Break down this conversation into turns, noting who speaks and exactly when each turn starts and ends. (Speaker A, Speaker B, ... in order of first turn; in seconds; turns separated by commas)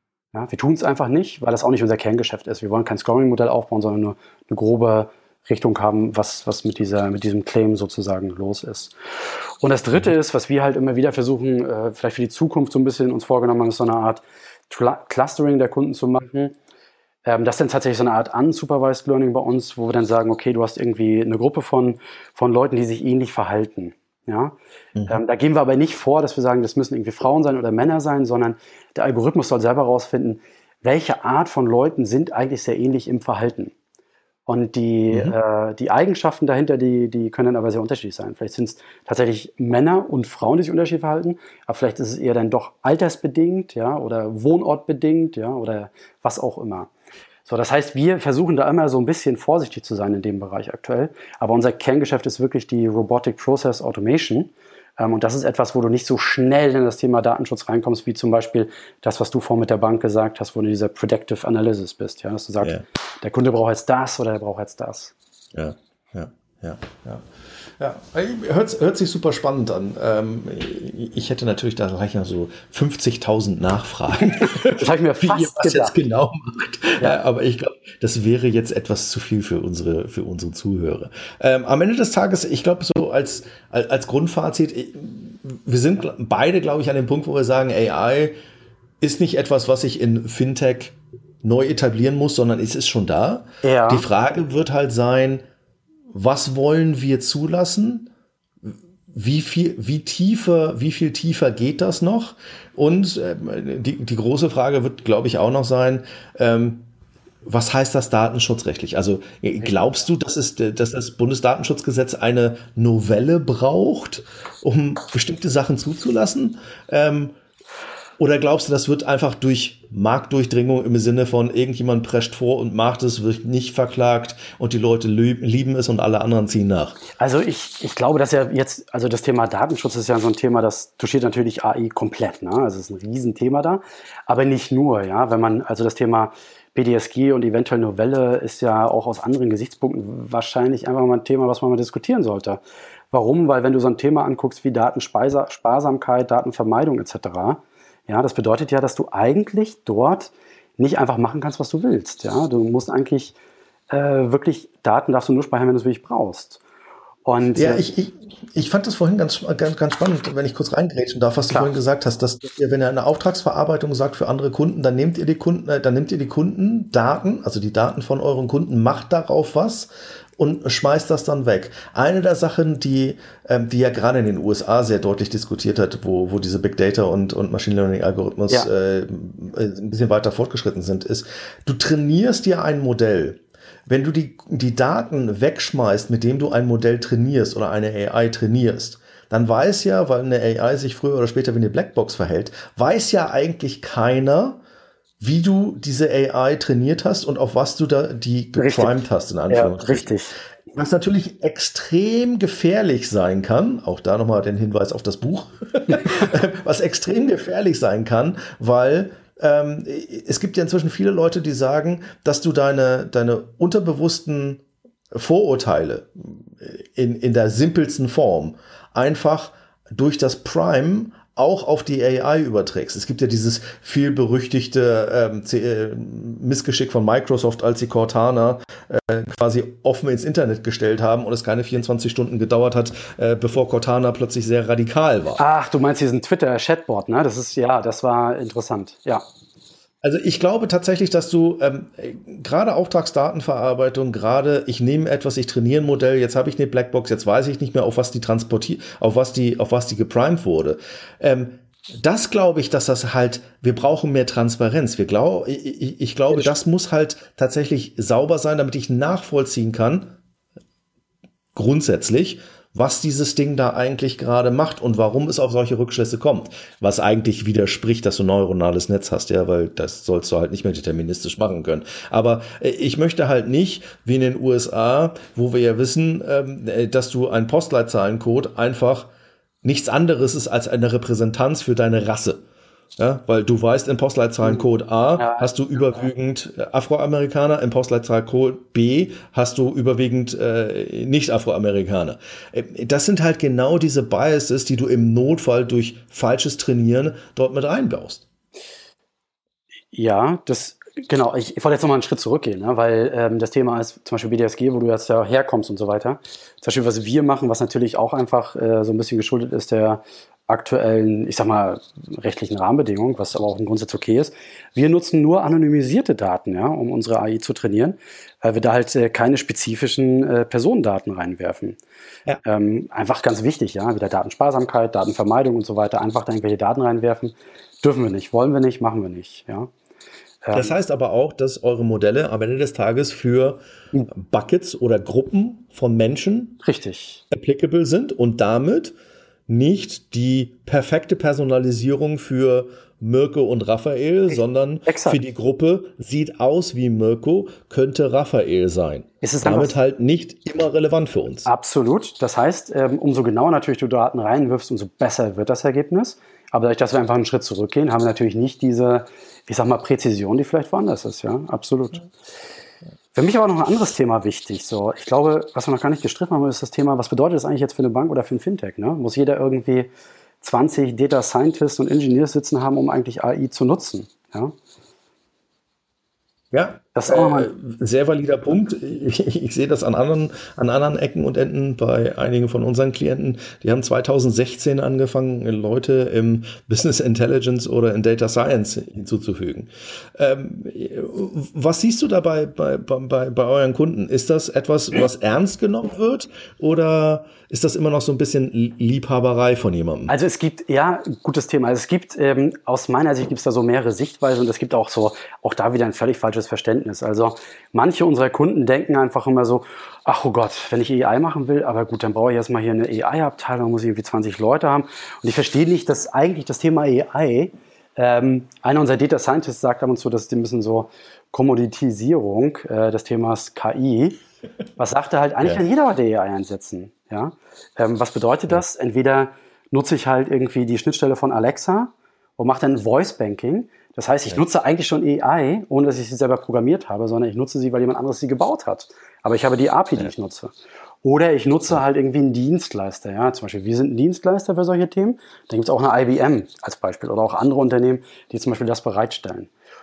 Speaker A: 0.3-16.6, Speaker A: 17.3-24.6, Speaker A: 25.1-33.7, Speaker A: 34.5-46.9, Speaker B: 35.1-35.4, Speaker A: 47.5-65.1, Speaker B: 65.5-67.2, Speaker B: 67.8-88.4, Speaker A: 74.4-76.0, Speaker B: 89.0-95.4, Speaker A: 93.6-94.0, Speaker B: 96.1-98.1, Speaker B: 98.6-106.9, Speaker B: 107.5-117.3, Speaker B: 118.2-127.0, Speaker A: 127.2-142.6, Speaker A: 143.1-153.4, Speaker A: 153.9-156.6, Speaker A: 157.2-157.8, Speaker B: 157.6-194.6, Speaker B: 195.2-200.2, Speaker A: 198.6-198.9, Speaker A: 199.5-200.3, Speaker B: 200.7-235.4, Speaker A: 235.4-239.2, Speaker B: 240.0-260.1, Speaker B: 261.6-279.1, Speaker B: 279.6-282.4, Speaker B: 283.0-298.3, Speaker A: 285.2-285.5, Speaker A: 299.9-321.8, Speaker A: 322.4-329.7, Speaker A: 330.4-330.7, Speaker B: 330.5-336.6, Speaker A: 336.6-337.2, Speaker B: 337.3-338.9, Speaker B: 339.5-351.5, Speaker A: 344.3-345.2, Speaker A: 349.2-349.7, Speaker A: 351.4-362.1, Speaker A: 363.1-369.9, Speaker A: 370.4-374.5, Speaker B: 376.5-400.1, Speaker A: 376.9-377.5, Speaker A: 400.1-424.2, Speaker A: 424.8-449.5